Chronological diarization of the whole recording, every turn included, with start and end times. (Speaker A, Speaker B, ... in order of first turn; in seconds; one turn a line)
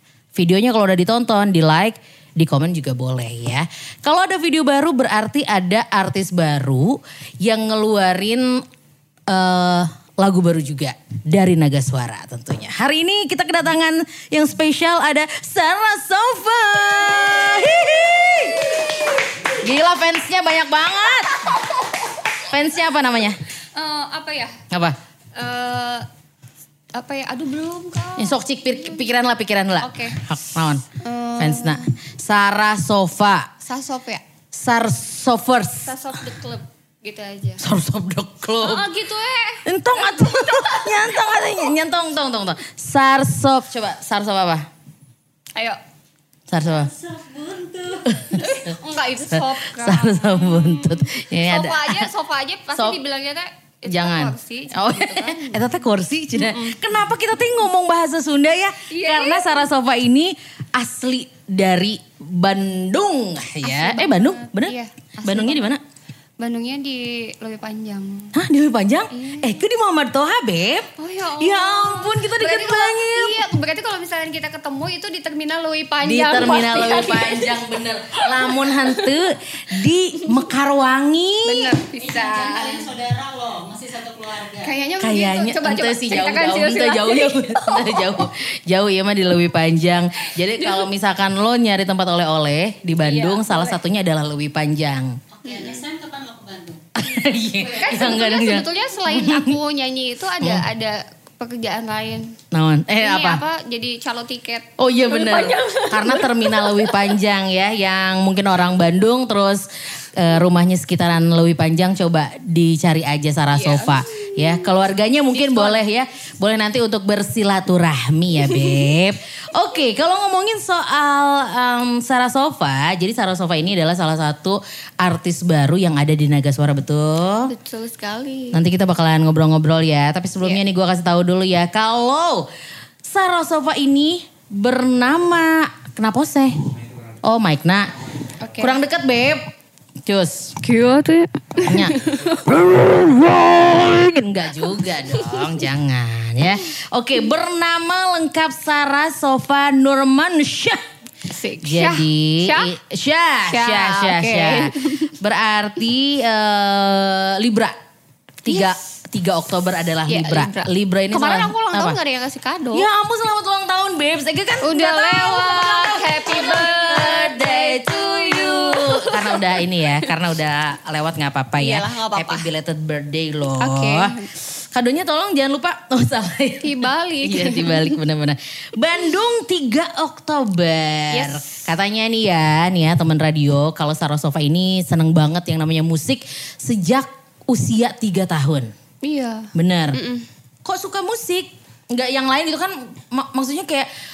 Speaker A: 0.3-8.6
Speaker A: 9.3-21.4
Speaker B: 18.6-18.9
Speaker A: 22.4-23.4
Speaker B: 23.7-24.6
Speaker A: 24.7-25.0
Speaker B: 25.3-26.1
Speaker B: 26.9-29.0
Speaker A: 28.2-30.8
Speaker B: 29.8-30.2
Speaker B: 31.0-31.9
Speaker A: 31.4-33.5
Speaker B: 33.6-34.2
Speaker A: 34.5-35.9
Speaker B: 35.9-37.6
Speaker A: 37.6-38.9
Speaker B: 38.6-41.2
Speaker A: 39.6-44.6
Speaker A: 46.5-46.9
Speaker C: 47.0-48.0
Speaker A: 48.0-48.8
Speaker B: 48.3-55.8
Speaker A: 49.3-52.1
Speaker A: 52.7-53.0
Speaker A: 53.9-65.8
Speaker B: 56.3-56.8
Speaker B: 58.9-59.6
Speaker B: 63.6-65.7
Speaker B: 66.4-68.3
Speaker A: 68.3-73.5
Speaker B: 69.1-69.6
Speaker B: 71.0-77.6
Speaker A: 76.0-81.8
Speaker B: 78.5-79.1
Speaker B: 81.4-82.9
Speaker C: 82.0-84.7
Speaker B: 84.6-88.1
Speaker A: 85.0-95.2
Speaker B: 90.5-90.9
Speaker B: 93.0-93.8
Speaker C: 95.4-96.8
Speaker A: 97.0-99.6
Speaker B: 97.7-102.3
Speaker A: 100.4-100.6
Speaker A: 102.5-103.4
Speaker B: 103.0-107.1
Speaker A: 104.8-127.5
Speaker B: 113.5-114.7
Speaker B: 115.3-115.8
Speaker B: 127.5-128.6
Speaker A: 128.5-132.5
Speaker A: 133.0-136.6
Speaker A: 137.2-138.0
Speaker B: 138.4-138.8
Speaker A: 138.6-139.5
Speaker A: 140.0-140.6
Speaker B: 140.6-142.9
Speaker A: 141.6-142.0
Speaker A: 142.9-150.8
Speaker B: 151.3-152.7
Speaker A: 151.6-157.8
Speaker B: 153.4-155.1
Speaker A: 158.4-162.0
Speaker B: 158.5-158.8
Speaker B: 160.1-162.9
Speaker A: 162.7-188.7
Speaker B: 164.6-170.1
Speaker B: 171.6-172.5
Speaker B: 173.6-174.3
Speaker B: 176.6-178.0
Speaker B: 181.1-181.4
Speaker B: 189.0-190.2
Speaker A: 189.5-190.0
Speaker A: 190.6-193.9